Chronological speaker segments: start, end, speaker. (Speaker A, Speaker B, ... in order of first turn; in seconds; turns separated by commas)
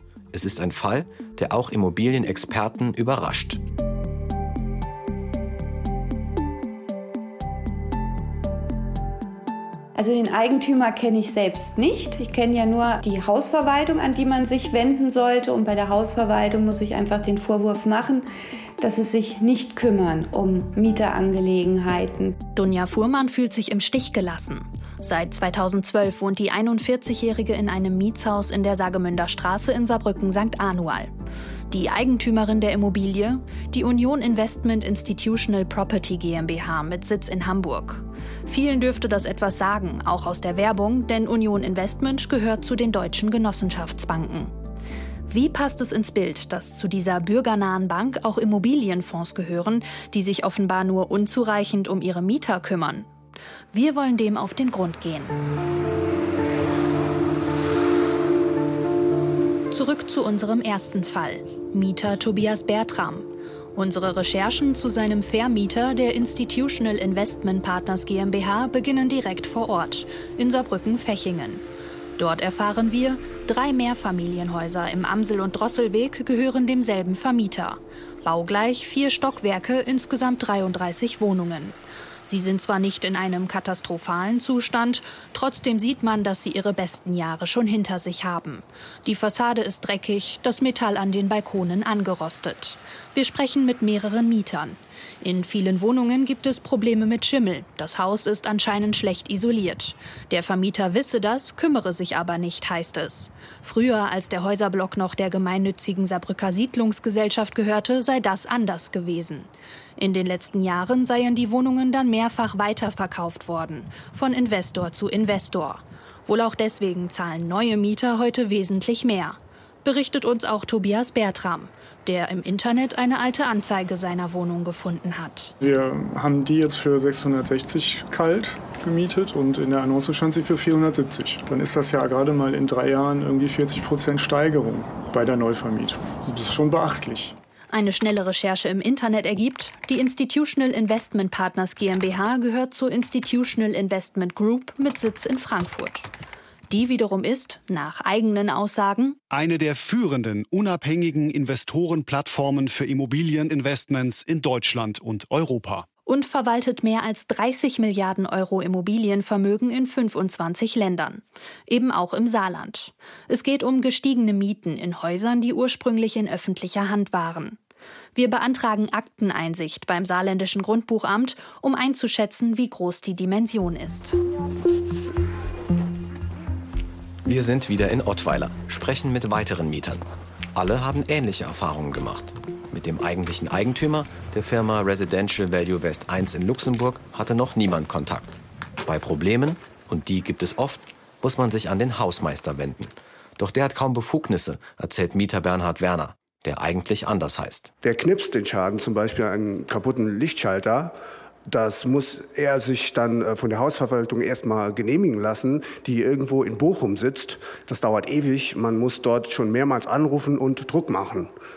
Speaker A: 0.3-3.6, Speaker B: 10.0-18.2, Speaker B: 18.8-22.4, Speaker C: 22.6-31.1, Speaker C: 31.7-44.5, Speaker C: 45.3-53.1, Speaker C: 53.7-55.4, Speaker C: 59.7-71.6, Speaker C: 72.2-125.5, Speaker D: 125.6-137.4, Speaker C: 137.7-146.1, Speaker C: 146.7-149.2, Speaker E: 149.3-155.9, Speaker C: 156.1-167.6, Speaker C: 168.2-174.2, Speaker A: 177.2-180.0, Speaker A: 180.6-197.7, Speaker F: 197.8-200.9, Speaker F: 201.5-211.3